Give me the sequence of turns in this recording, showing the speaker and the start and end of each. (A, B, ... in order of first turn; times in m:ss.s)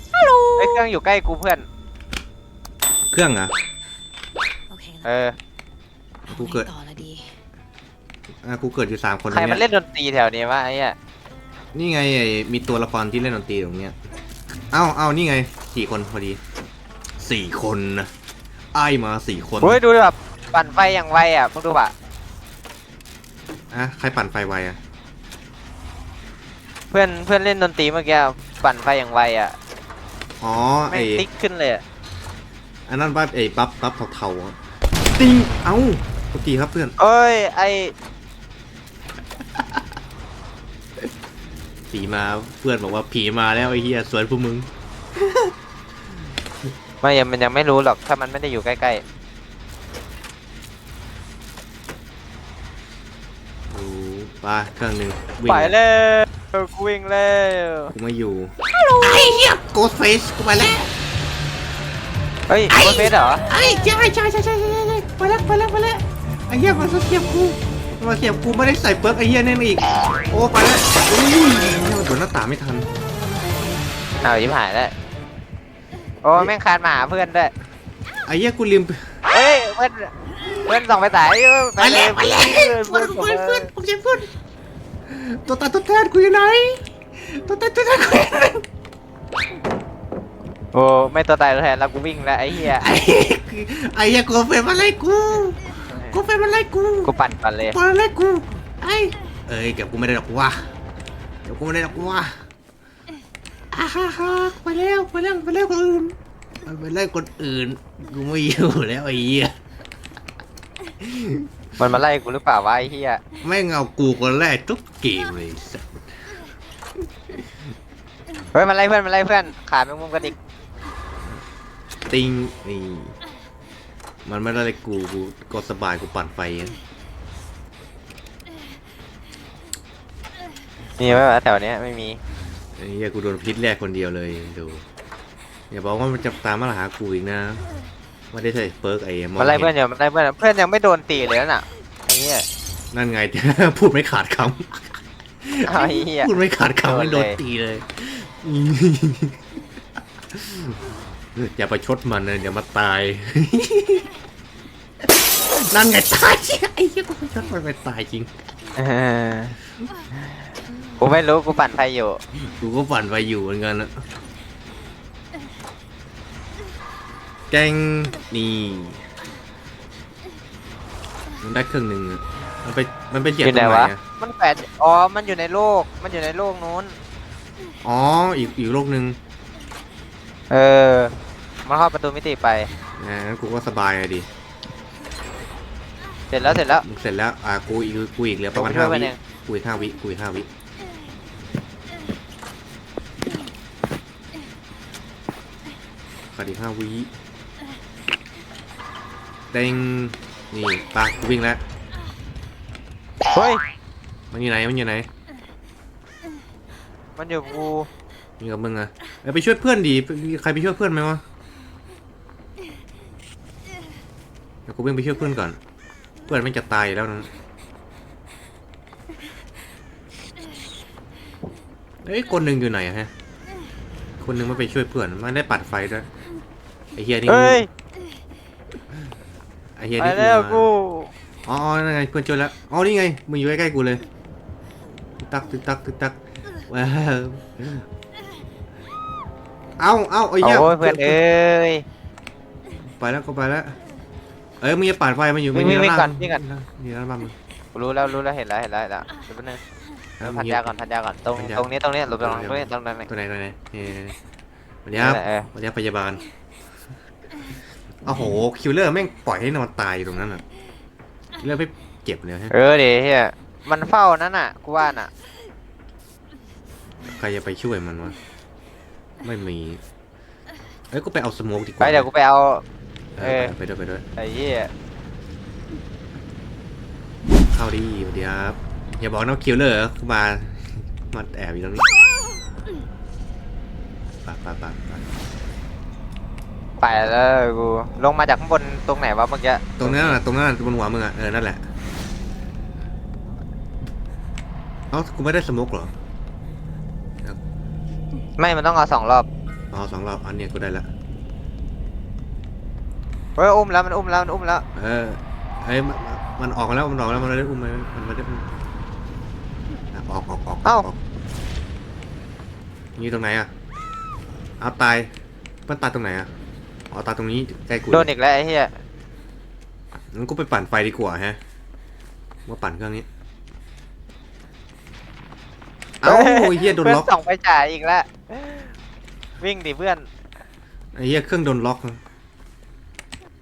0:00.1-0:00.5 A
0:00.6-0:01.6 B
0:03.1-0:03.5 C
0:04.7-0:05.0 A
0:05.0-0:05.4 B
0:06.3-0:06.7 C
0:06.3-0:07.3 A
0:08.4-0:09.6 C
0:09.3-0:11.0 B
0:11.7-0:14.0 C
0:14.7-0:16.4 C
0:17.2-0:18.1 C
0:18.7-0:19.8 C
0:19.6-0:21.9 B
0:23.7-0:24.8 C
0:26.9-0:29.5 B
0:30.4-0:31.2 C
0:30.9-0:31.8 B
0:32.9-0:36.9 C
0:37.0-0:37.9 B
0:39.5-0:39.8 C
0:41.9-0:45.5 C
0:47.0-0:49.0 B
0:53.7-0:55.8 C
0:55.5-0:57.9 B
0:57.9-1:00.9 C
0:58.7-0:59.5 A
1:02.5-1:03.4 B
1:02.7-1:12.9 C
1:14.2-1:14.9 B
1:16.2-1:17.5 B
1:18.3-1:19.2 C
1:19.3-1:20.1 B
1:20.6-1:23.7 B
1:21.8-1:24.3 C
1:25.0-1:28.6 C
1:30.7-1:32.9 B
1:32.5-1:35.6 C
1:35.9-1:36.2 B
1:36.1-1:40.7 C
1:37.0-1:37.8 B
1:41.4-1:42.4 C
1:43.7-1:49.5 C
1:51.0-1:51.5 C
1:51.8-1:53.2 B
1:53.4-1:56.1 C
1:58.5-2:00.4 B
2:02.1-2:03.2 C
2:04.2-2:06.8 C
2:11.0-2:12.2 B
2:12.8-2:14.8 C
2:15.7-2:17.6 C
2:18.3-2:19.7 C
2:19.4-2:22.4 B
2:22.9-2:29.4 C
2:25.7-2:27.4 B
2:30.3-2:30.8 C
2:31.4-2:34.1 C
2:35.0-2:38.3 C
2:38.8-2:39.5 B
2:41.0-2:42.2 B
2:42.4-2:43.9 C
2:47.5-2:49.0 C
2:51.4-2:54.0 C
2:53.4-2:57.0 B
2:57.8-2:59.2 C
3:00.5-3:01.1 B
3:01.6-3:02.7 B
3:03.0-3:04.3 C
3:06.3-3:06.8 B
3:06.4-3:10.5 C
3:08.5-3:09.2 B
3:16.3-3:17.1 C
3:19.5-3:21.6 C
3:23.3-3:23.6 B
3:24.3-3:25.1 C
3:27.2-3:27.9 B
3:28.4-3:31.2 C
3:34.7-3:35.6 C
3:36.2-3:37.3 C
3:42.0-3:43.1 C
3:44.2-3:46.1 C
3:47.0-3:47.6 C
3:47.3-3:47.7 B
3:49.8-3:50.7 C
3:50.0-3:51.1 B
3:51.4-3:54.0 C
3:55.2-3:56.1 C
3:56.7-3:57.8 C
3:59.8-4:01.2 C
4:00.4-4:01.8 B
4:02.9-4:03.8 C
4:04.6-4:07.4 C
4:05.5-4:06.4 B
4:07.7-4:09.6 B
4:10.2-4:10.7 C
4:10.2-4:13.1 B
4:11.3-4:14.2 C
4:14.8-4:16.2 C
4:15.0-4:15.5 B
4:18.0-4:20.4 C
4:21.4-4:22.5 C
4:22.5-4:25.1 B
4:27.0-4:28.2 C
4:29.2-4:29.8 C
4:30.9-4:32.1 C
4:31.8-4:32.6 B
4:33.2-4:34.0 C
4:33.2-4:33.5 B
4:34.2-4:34.7 B
4:37.5-4:41.8 C
4:44.2-4:45.0 C
4:46.8-4:50.2 B
4:49.8-4:51.6 C
4:54.9-4:55.9 C
4:58.4-4:59.3 B
4:59.7-5:00.9 C
5:03.4-5:04.6 B
5:04.7-5:08.4 C
5:09.9-5:11.0 C
5:13.0-5:13.5 C
5:14.6-5:15.1 C
5:15.7-5:16.3 C
5:16.9-5:18.1 C
5:17.9-5:18.8 B
5:20.1-5:21.4 C
5:22.5-5:23.0 C
5:26.0-5:27.1 C
5:26.0-5:28.7 B
5:29.4-5:30.1 B
5:31.0-5:32.0 C